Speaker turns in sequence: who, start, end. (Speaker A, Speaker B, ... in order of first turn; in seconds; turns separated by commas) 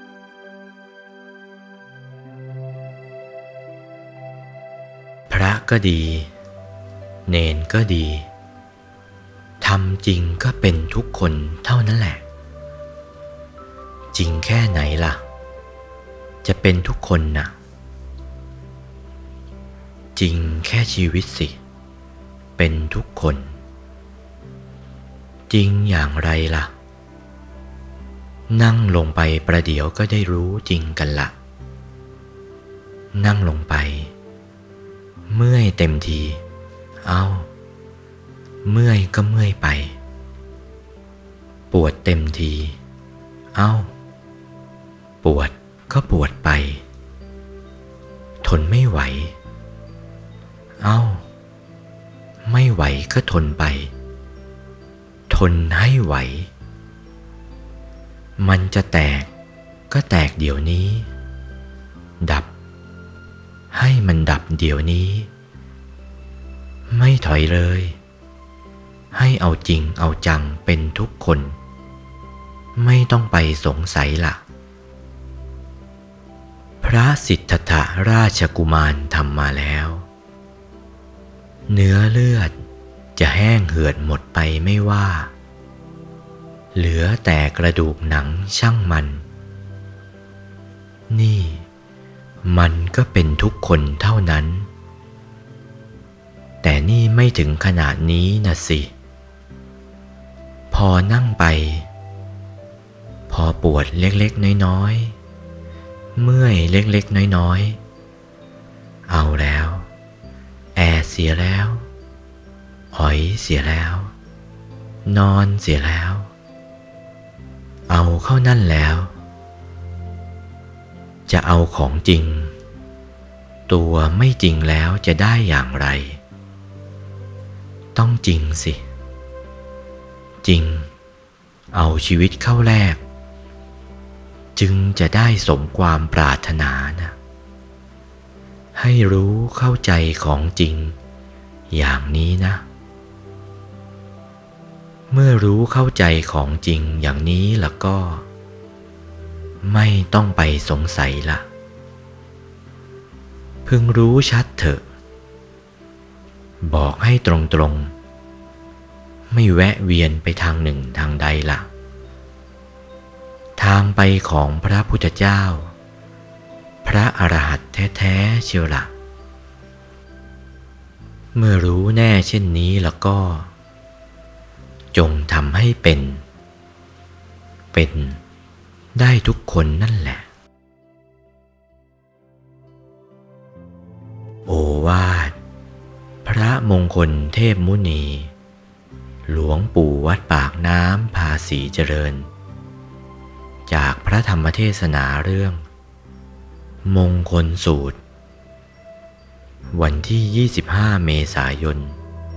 Speaker A: 5.3-6.3, Speaker A: 7.3-8.3, Speaker A: 9.6-12.2, Speaker A: 14.1-15.2, Speaker A: 16.4-17.5, Speaker A: 20.2-21.6, Speaker A: 22.6-23.6, Speaker A: 25.5-26.7, Speaker A: 28.5-31.3, Speaker A: 33.1-34.1, Speaker A: 35.3-36.4, Speaker A: 37.0-37.5, Speaker A: 38.6-40.0, Speaker A: 41.7-42.8, Speaker A: 43.5-43.9, Speaker A: 45.2-46.8, Speaker A: 48.4-49.4, Speaker A: 50.8-51.2, Speaker A: 52.5-53.9, Speaker A: 55.3-56.5, Speaker A: 58.4-59.3, Speaker A: 59.9-61.1, Speaker A: 62.2-62.5, Speaker A: 63.7-65.3, Speaker A: 66.9-68.0, Speaker A: 69.1-71.6, Speaker A: 72.8-74.4, Speaker A: 76.8-80.1, Speaker A: 81.7-82.5, Speaker A: 83.2-85.3, Speaker A: 86.7-89.2, Speaker A: 91.1-91.7, Speaker A: 92.4-94.7, Speaker A: 96.6-98.9, Speaker A: 100.7-101.9, Speaker A: 103.3-105.2, Speaker A: 106.2-107.8, Speaker A: 109.1-109.9, Speaker A: 110.8-111.9, Speaker A: 112.9-114.1, Speaker A: 115.0-116.3, Speaker A: 117.9-119.1, Speaker A: 121.3-122.5, Speaker A: 123.7-126.2, Speaker A: 128.0-128.8, Speaker A: 130.4-130.9, Speaker A: 131.7-133.0, Speaker A: 134.6-137.2, Speaker A: 138.8-141.0, Speaker A: 141.7-142.7, Speaker A: 145.1-148.3, Speaker A: 149.6-151.5, Speaker A: 153.7-154.8, Speaker A: 156.6-157.9, Speaker A: 159.3-161.7, Speaker A: 163.6-165.7, Speaker A: 166.8-168.9, Speaker A: 171.3-173.5, Speaker A: 174.9-176.2, Speaker A: 177.7-178.2, Speaker A: 178.9-180.3, Speaker A: 184.5-185.4, Speaker A: 186.2-188.3, Speaker A: 189.3-192.3, Speaker A: 193.7-195.7, Speaker A: 196.8-198.0, Speaker A: 199.7-202.0